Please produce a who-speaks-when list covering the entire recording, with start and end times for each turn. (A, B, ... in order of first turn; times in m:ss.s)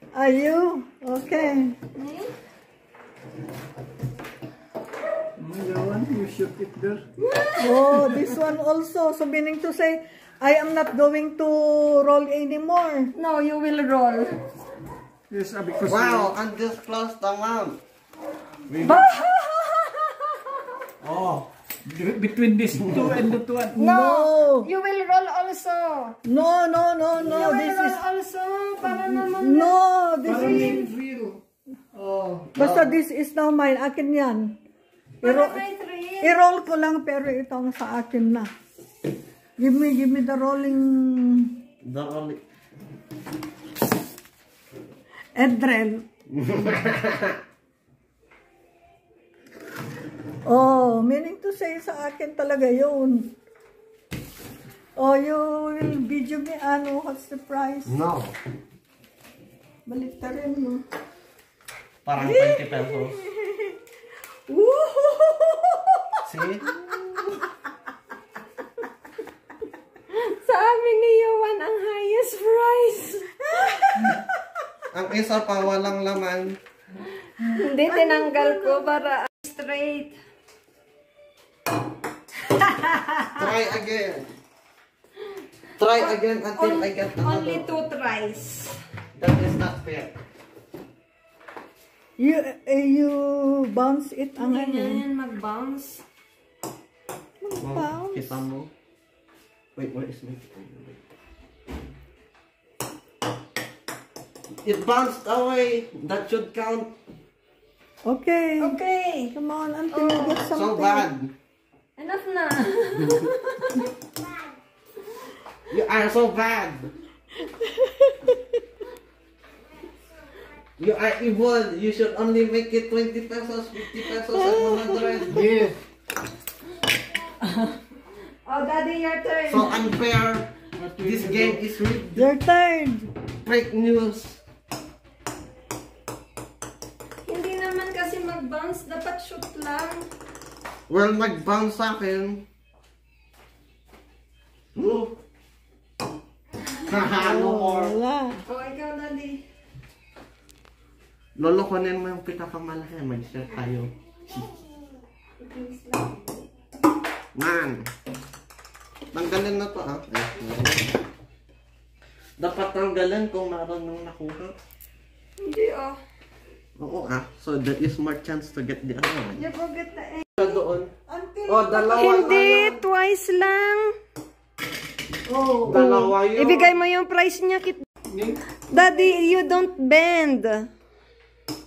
0:00.1-0:01.8 A
0:01.9-0:02.3 B
0:05.4-0:07.0 C
0:07.2-0:08.1 B
0:07.6-0:13.1 A
0:13.2-0:14.4 B
0:15.3-0:16.3 C
0:15.8-0:17.8 D
0:18.7-0:19.1 D
0:18.8-0:20.8 B
0:21.0-0:21.5 D
0:21.9-0:23.8 C
0:23.7-0:24.7 A
0:23.8-0:26.2 B
0:26.2-0:28.0 A
0:27.2-0:29.8 B
0:28.8-0:30.9 A
0:30.2-0:31.4 C
0:30.3-0:30.8 B
0:32.0-0:32.5 C
0:32.6-0:33.0 D
0:32.6-0:34.6 A
0:35.2-0:35.6 A
0:35.2-0:36.4 B
0:36.2-0:38.5 A
0:39.6-0:41.6 A
0:41.8-0:42.4 D
0:45.4-0:46.1 A
0:46.3-0:47.4 D
0:50.5-0:53.3 A
0:55.0-0:58.0 A
0:57.9-0:58.4 D
0:59.9-1:00.8 A
1:02.0-1:03.2 D
1:02.2-1:03.1 B
1:04.5-1:05.6 B
1:06.3-1:06.6 D
1:10.1-1:13.6 B
1:13.8-1:14.2 A
1:14.9-1:16.6 D
1:17.4-1:20.2 B
1:17.9-1:19.0 A
1:22.9-1:23.3 A
1:23.3-1:24.3 D
1:25.8-1:27.7 D
1:25.9-1:28.8 B
1:29.2-1:30.2 D
1:32.2-1:35.0 A
1:34.4-1:36.0 B
1:37.4-1:38.4 A
1:37.6-1:38.7 D
1:39.8-1:41.0 D
1:44.6-1:46.9 D
1:48.0-1:48.8 A
1:48.6-1:49.3 B
1:49.3-1:51.1 A
1:49.9-1:50.4 B
1:50.5-1:51.3 D
1:52.0-1:53.9 B
1:55.7-1:56.9 D
1:57.4-1:58.4 A
2:00.8-2:05.4 D
2:04.2-2:05.6 A
2:05.3-2:05.8 C
2:08.5-2:09.8 B
2:09.5-2:12.3 D
2:10.8-2:11.6 C
2:12.2-2:13.1 A
2:13.4-2:14.4 D
2:17.2-2:20.1 B
2:20.9-2:22.4 D
2:24.8-2:25.2 D
2:26.8-2:28.0 D
2:27.1-2:28.4 A
2:28.5-2:29.4 B
2:31.4-2:33.9 D
2:35.4-2:36.5 B
2:37.4-2:37.8 D
2:39.1-2:40.8 D
2:42.4-2:44.6 D
2:45.4-2:46.0 B
2:46.8-2:49.4 D
2:49.4-2:50.6 B
2:50.4-2:50.9 D
2:51.1-2:52.2 A
2:51.5-2:52.8 D
2:51.9-2:53.9 B
2:55.3-2:55.9 A
2:55.6-2:56.7 D
2:55.7-2:57.8 B
2:58.1-2:58.4 C
2:58.7-3:00.7 B
2:58.7-2:59.1 A